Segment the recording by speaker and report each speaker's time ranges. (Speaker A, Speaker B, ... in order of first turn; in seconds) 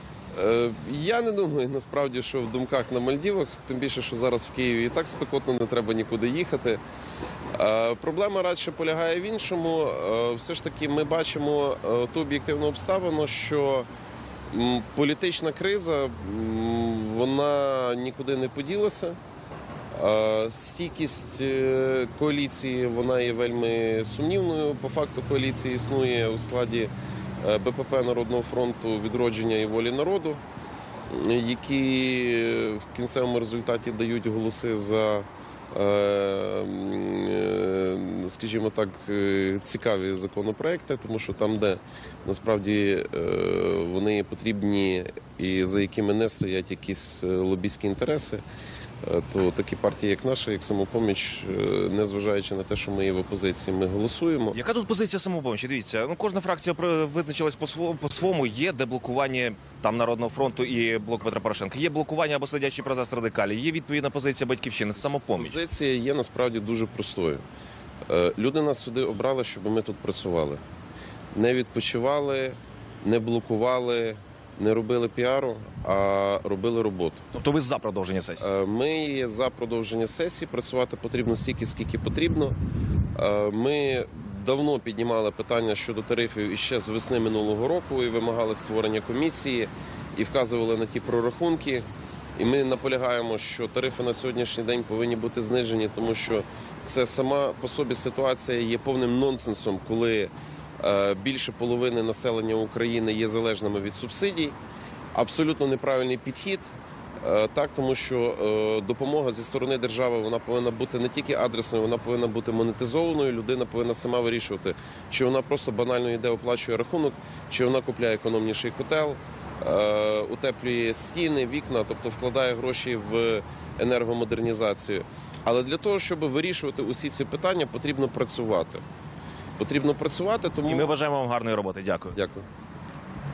Speaker A: 0.3-6.8, 7.5-13.9, 14.5-19.2, 19.9-26.9, 27.4-30.4, 31.1-48.4, 49.0-54.6, 65.3-67.4, 68.1-70.6, 71.3-77.2, 78.4-82.5, 83.2-91.8, 92.4-104.5, 105.1-128.8, 129.6-130.9, 132.1-132.4
Speaker B: 54.5-65.6, 77.3-78.5, 130.7-132.2